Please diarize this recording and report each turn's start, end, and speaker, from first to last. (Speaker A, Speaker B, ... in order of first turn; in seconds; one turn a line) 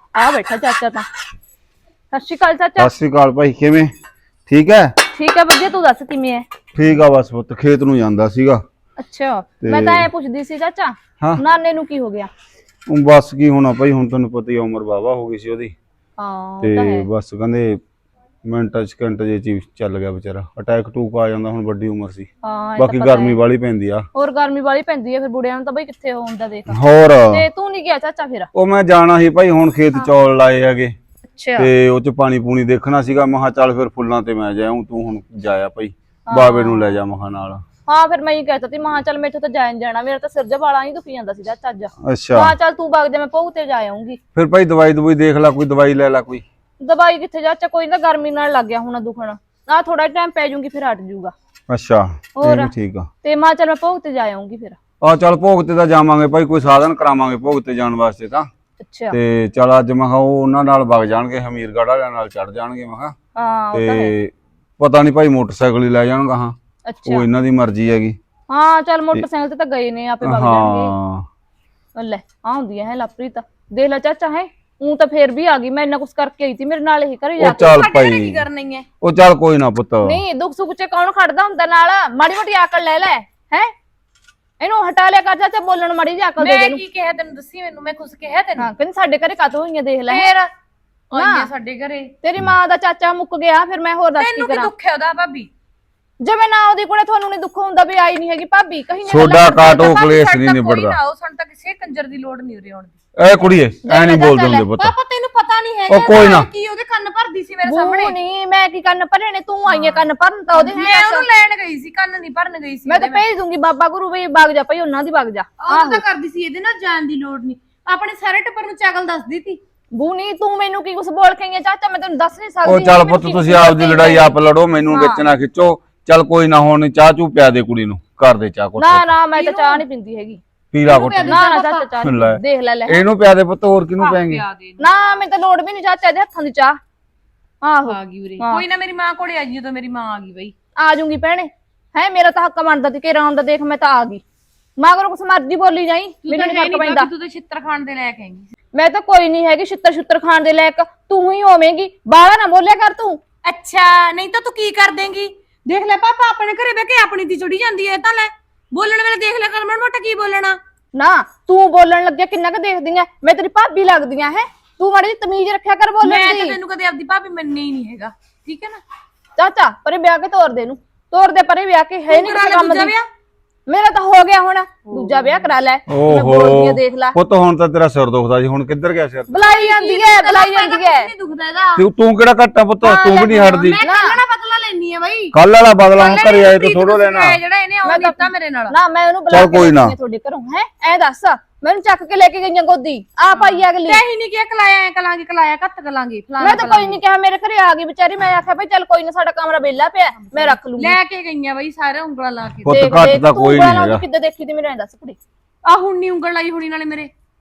Speaker A: 0.1-1.1
Speaker A: 2.1-2.9
Speaker B: 2.8-3.9
Speaker B: 4.5-4.9
Speaker A: 5.1-6.5
Speaker B: 6.7-8.6
Speaker A: 9.0-12.3
Speaker B: 9.6-10.1
Speaker B: 12.9-15.7
Speaker A: 16.2-17.1
Speaker B: 16.6-17.8
Speaker B: 18.4-22.3
Speaker A: 22.4-23.4
Speaker B: 22.8-24.1
Speaker A: 24.1-28.5
Speaker B: 26.7-27.4
Speaker B: 28.5-30.9
Speaker A: 31.3-31.7
Speaker B: 31.6-37.6
Speaker A: 36.3-37.0
Speaker A: 37.9-44.2
Speaker B: 42.0-42.5
Speaker B: 44.3-46.4
Speaker A: 46.8-51.3
Speaker B: 51.7-53.1
Speaker A: 52.4-52.7
Speaker A: 53.2-54.8
Speaker B: 55.0-58.5
Speaker A: 58.8-59.1
Speaker B: 59.1-63.1
Speaker A: 63.3-64.1
Speaker B: 63.7-66.5
Speaker A: 66.8-67.2
Speaker B: 67.0-68.2
Speaker A: 68.5-70.9
Speaker B: 70.2-71.2
Speaker A: 71.9-77.8
Speaker B: 77.4-78.4
Speaker C: 77.7-78.9
Speaker B: 79.0-80.2
Speaker A: 80.0-83.7
Speaker A: 84.6-86.8
Speaker C: 86.4-88.7
Speaker A: 88.6-90.3
Speaker C: 90.1-90.5
Speaker C: 91.1-92.1
Speaker A: 91.1-91.5
Speaker A: 92.2-94.7
Speaker C: 94.2-95.5
Speaker A: 96.2-99.9
Speaker B: 99.1-101.0
Speaker C: 99.5-102.9
Speaker B: 103.2-104.9
Speaker A: 103.8-104.7
Speaker C: 104.7-108.2
Speaker B: 105.9-106.5
Speaker A: 107.6-111.3
Speaker C: 109.7-113.2
Speaker A: 112.9-116.0
Speaker C: 115.6-119.6
Speaker A: 119.9-124.4
Speaker B: 122.6-129.1
Speaker A: 124.9-125.3
Speaker A: 128.8-130.4
Speaker C: 129.3-129.8
Speaker B: 130.7-131.4
Speaker C: 130.8-131.9
Speaker A: 131.2-133.0
Speaker B: 132.0-134.4
Speaker C: 134.0-135.0
Speaker A: 134.8-136.8
Speaker A: 137.6-138.6
Speaker C: 137.8-140.5
Speaker A: 140.8-144.2
Speaker A: 144.8-147.1
Speaker C: 146.3-148.5
Speaker A: 148.7-153.2
Speaker C: 153.4-160.6
Speaker A: 160.9-166.6
Speaker C: 166.0-168.8
Speaker A: 169.4-172.9
Speaker C: 172.1-173.1
Speaker A: 173.7-177.2
Speaker B: 175.9-179.3
Speaker A: 179.3-181.1
Speaker C: 179.3-181.8
Speaker B: 181.8-183.8
Speaker C: 182.8-185.4
Speaker A: 183.8-184.2
Speaker B: 185.3-187.4
Speaker C: 185.9-188.7
Speaker A: 187.8-194.0
Speaker B: 189.3-189.9
Speaker C: 193.3-197.0
Speaker A: 196.4-201.0
Speaker C: 200.2-202.7
Speaker B: 202.6-204.0
Speaker A: 202.7-205.2
Speaker C: 205.6-207.1